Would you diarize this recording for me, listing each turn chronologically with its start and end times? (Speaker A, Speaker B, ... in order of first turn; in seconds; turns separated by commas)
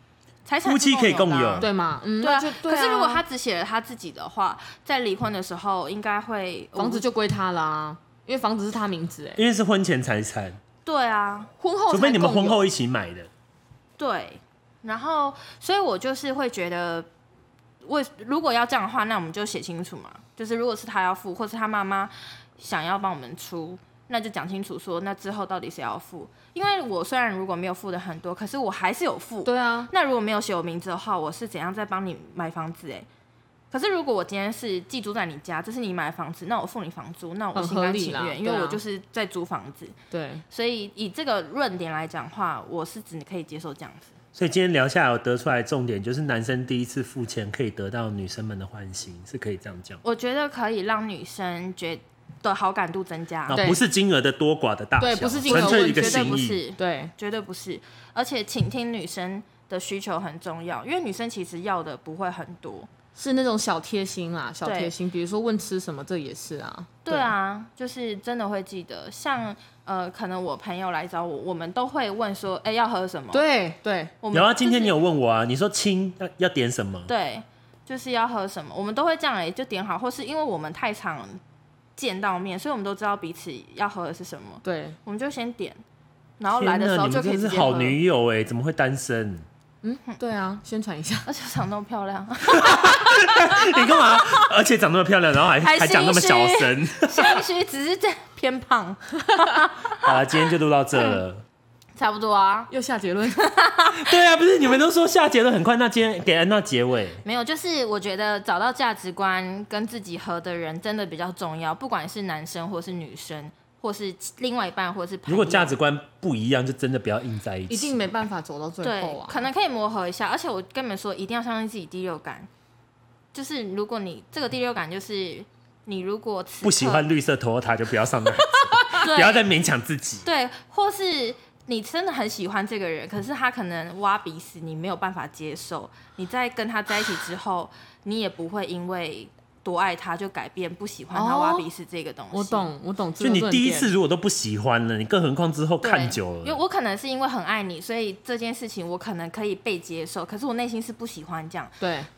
Speaker A: 0.5-7.0, Speaker B: 0.6-1.7, Speaker C: 1.6-3.2, Speaker C: 6.8-9.4, Speaker B: 9.4-10.6, Speaker A: 10.8-11.5, Speaker C: 11.6-12.6, Speaker B: 11.9-13.3, Speaker A: 14.0-17.1, Speaker A: 17.8-33.1, Speaker C: 29.4-29.9, Speaker A: 33.7-39.9, Speaker C: 37.5-38.8, Speaker C: 40.1-40.4, Speaker A: 40.5-44.1, Speaker B: 44.3-50.0, Speaker A: 50.0-53.6, Speaker B: 53.5-56.6, Speaker C: 53.5-53.8, Speaker C: 55.0-57.1, Speaker A: 55.5-62.9, Speaker C: 63.1-67.3, Speaker A: 64.6-64.9, Speaker A: 67.0-73.4, Speaker C: 73.3-74.1, Speaker A: 74.2-74.9, Speaker B: 74.3-77.1, Speaker A: 77.1-81.4, Speaker A: 82.0-85.8, Speaker C: 84.6-85.0, Speaker A: 86.4-88.0, Speaker B: 86.5-89.5, Speaker C: 89.8-91.3, Speaker A: 91.2-93.2, Speaker B: 92.5-97.4, Speaker A: 95.6-100.1, Speaker B: 100.0-101.4, Speaker A: 102.0-102.7, Speaker C: 102.7-103.5, Speaker A: 103.4-104.1, Speaker B: 103.9-107.2, Speaker A: 107.2-115.7, Speaker B: 115.2-118.0, Speaker C: 117.7-119.4, Speaker A: 118.8-122.5, Speaker A: 123.3-127.0, Speaker B: 126.6-130.2, Speaker C: 128.5-129.0, Speaker A: 128.9-129.4, Speaker A: 130.2-142.7, Speaker C: 141.1-141.7, Speaker C: 142.3-143.9, Speaker B: 143.2-146.6, Speaker A: 145.8-151.8, Speaker C: 151.8-152.1